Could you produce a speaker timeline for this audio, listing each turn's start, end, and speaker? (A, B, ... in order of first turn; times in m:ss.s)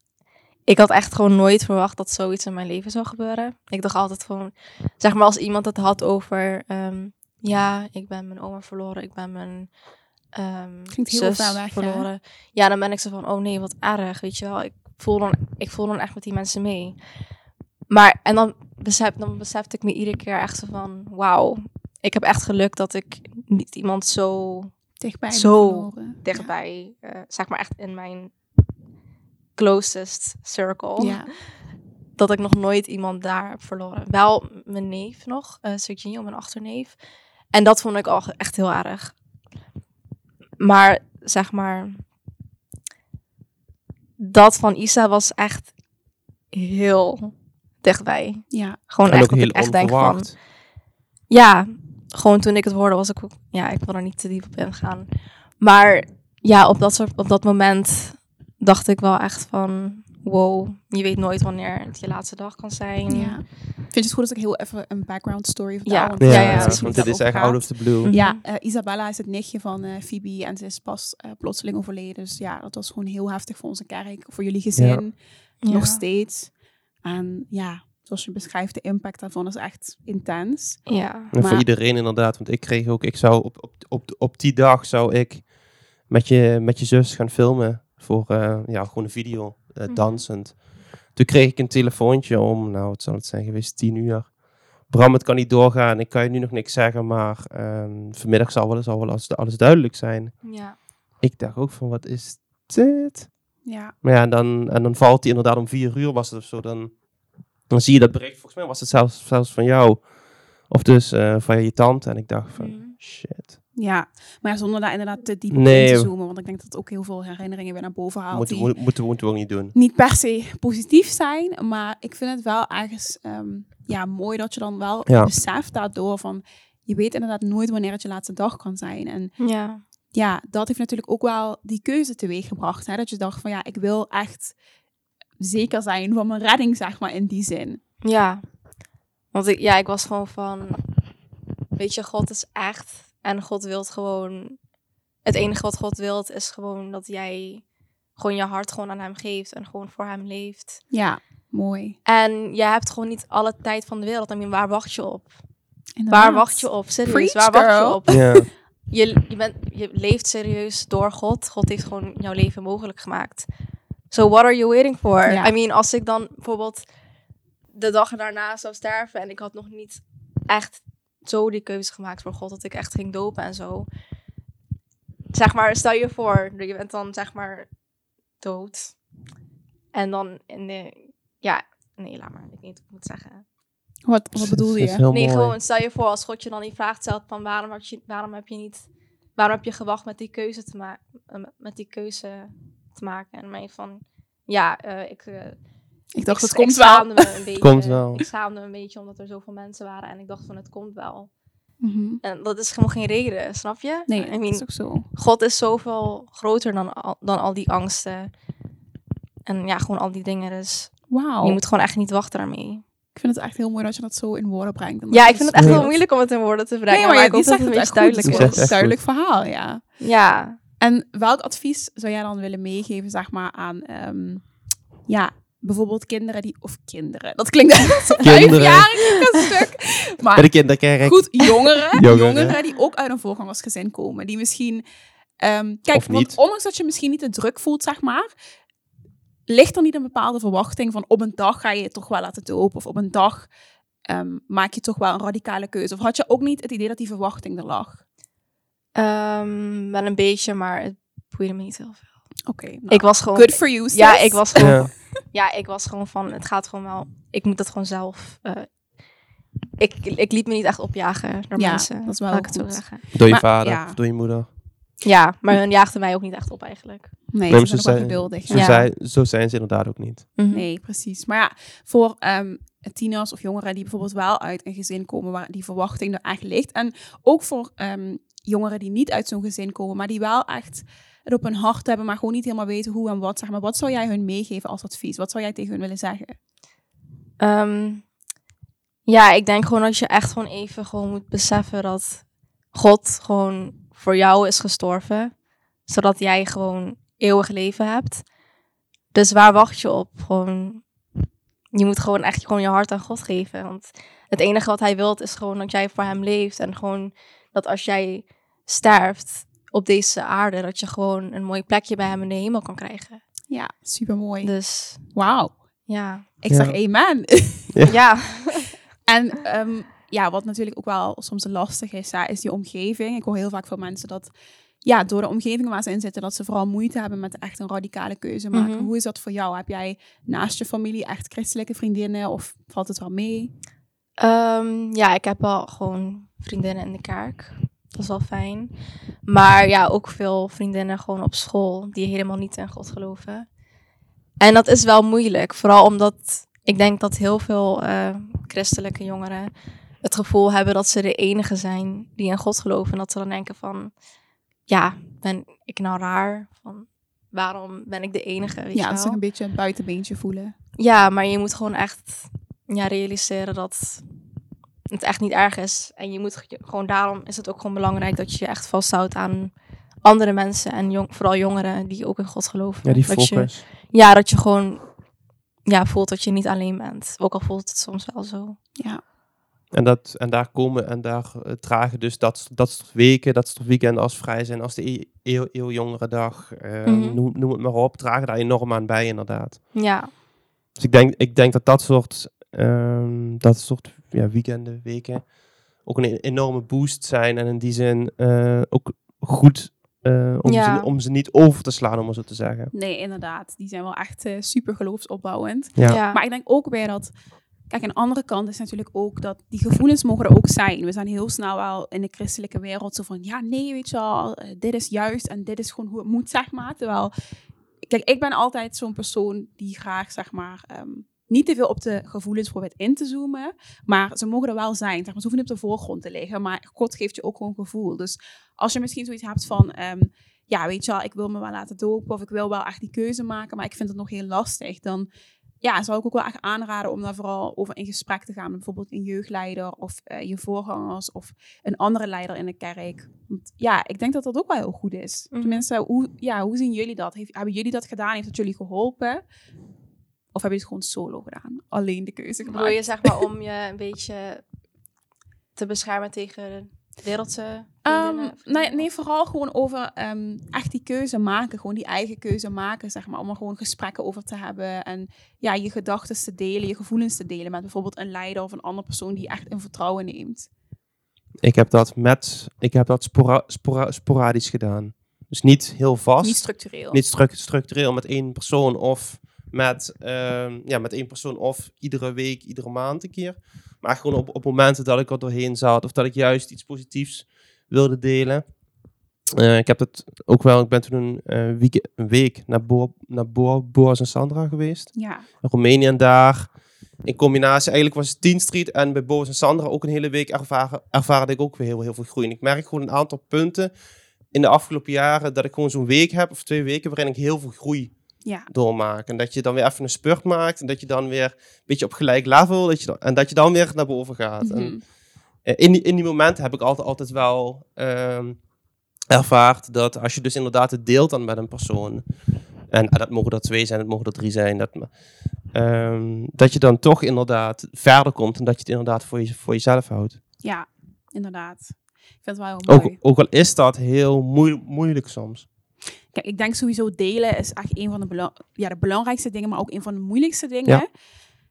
0:00.7-0:09.7 A
0:10.3-0:17.0 A
0:10.9-0:12.1 B
0:17.9-0:24.7 A
0:25.0-0:26.5 B
0:25.3-0:28.3 A
0:29.6-0:31.2 A
0:31.0-0:31.3 B
0:32.2-0:37.0 A
0:37.5-0:39.1 A
0:40.6-0:42.0 A
0:44.2-0:45.7 A
0:46.5-0:50.4 A
0:48.5-0:48.8 B
0:49.1-0:50.4 C
0:51.3-1:03.4 A
1:03.1-1:21.6 B
1:05.8-1:07.1 A
1:06.2-1:08.1 C
1:08.0-1:08.4 A
1:14.8-1:15.0 C
1:15.6-1:16.0 A
1:20.9-1:21.3 A
1:21.3-1:40.5 C
1:29.9-1:30.2 A
1:40.4-1:40.8 A
1:41.2-1:43.3 C
1:43.6-1:43.9 B
1:44.0-1:47.0 C
1:47.7-1:50.1 C
1:50.6-1:53.5 C
1:52.6-1:53.0 A
1:53.8-1:58.7 B
1:55.5-1:56.1 C
1:58.3-1:59.7 C
1:59.7-2:09.5 B
2:09.4-2:09.8 A
2:10.1-2:14.5 B
2:15.4-2:17.8 B
2:18.0-2:18.4 A
2:19.3-2:20.8 A
2:21.8-2:24.6 A
2:25.2-2:27.6 A
2:28.2-2:30.8 A
2:30.9-2:32.0 B
2:32.0-2:35.3 A
2:36.0-2:38.4 B
2:36.1-2:43.5 A
2:38.1-2:38.5 C
2:44.1-2:46.8 A
2:45.3-2:45.5 B
2:47.7-2:53.9 A
2:55.3-2:57.7 A
2:58.4-2:59.0 A
2:59.9-3:03.4 A
3:04.0-3:05.0 B
3:04.4-3:05.6 C
3:05.1-3:08.8 A
3:09.4-3:15.6 A
3:16.1-3:17.4 B
3:16.2-3:21.3 A
3:17.6-3:18.2 C
3:21.8-3:22.2 B
3:22.2-3:28.3 A
3:24.1-3:25.1 B
3:29.4-3:32.8 A
3:31.1-3:31.6 B
3:33.1-3:35.9 B
3:35.1-3:38.7 A
3:35.5-3:35.9 C
3:36.9-3:39.8 B
3:38.2-3:39.0 C
3:40.0-3:40.6 A
3:40.8-3:44.5 B
3:45.1-3:54.8 B
3:48.2-3:48.9 C
3:50.3-3:51.4 C
3:52.0-3:52.5 C
3:55.4-3:58.3 B
3:55.9-3:56.4 C
3:59.5-4:03.5 B
4:04.1-4:08.0 B
4:09.0-4:12.1 A
4:12.4-4:14.9 B
4:12.9-4:18.7 A
4:14.6-4:14.9 C
4:19.8-4:23.0 A
4:21.6-4:24.0 B
4:23.1-4:24.5 C
4:25.0-4:27.1 A
4:27.3-4:28.9 B
4:27.5-4:30.3 C
4:28.5-4:28.8 A
4:30.4-4:30.6 A
4:30.5-4:46.4 B
4:47.4-4:48.1 A
4:49.0-4:58.3 A
4:59.1-5:00.8 A
5:01.7-5:13.2 A
5:13.5-5:15.6 B
5:14.4-5:15.2 A
5:15.9-5:16.2 A
5:16.4-5:17.8 B
5:16.5-5:16.8 C
5:17.7-5:18.0 C
5:17.8-5:18.7 A
5:19.1-5:33.5 B
5:28.5-5:28.9 A
5:34.2-5:38.7 A
5:39.2-5:43.5 A
5:44.4-5:49.5 A
5:50.0-5:53.9 A
5:54.7-5:59.2 A
5:58.7-6:00.5 B
6:00.8-6:04.0 A
6:04.9-6:14.9 A
6:12.8-6:13.6 C
6:15.6-6:18.6 A
6:19.7-6:29.7 C
6:26.8-6:27.2 A
6:29.7-6:30.1 A
6:30.8-6:42.7 C
6:40.4-6:40.9 A
6:42.7-6:47.1 B
6:45.8-6:46.2 A
6:47.7-6:57.1 B
6:57.8-7:15.1 B
7:15.6-7:29.2 B
7:25.3-7:25.6 A
7:30.3-7:33.2 B
7:32.4-7:34.4 A
7:35.6-7:38.8 A
7:37.8-7:50.5 B
7:51.4-8:08.4 C
7:56.2-7:57.0 B
8:09.3-8:16.5 C
8:14.9-8:15.2 B
8:17.0-8:23.7 C
8:24.3-8:28.0 C
8:28.5-8:34.8 C
8:34.4-8:34.8 B
8:35.4-8:38.4 C
8:39.1-8:42.0 C
8:42.7-8:44.9 C
8:45.5-8:50.2 C
8:50.4-8:53.0 B
8:52.6-8:55.4 C
8:56.1-9:00.9 B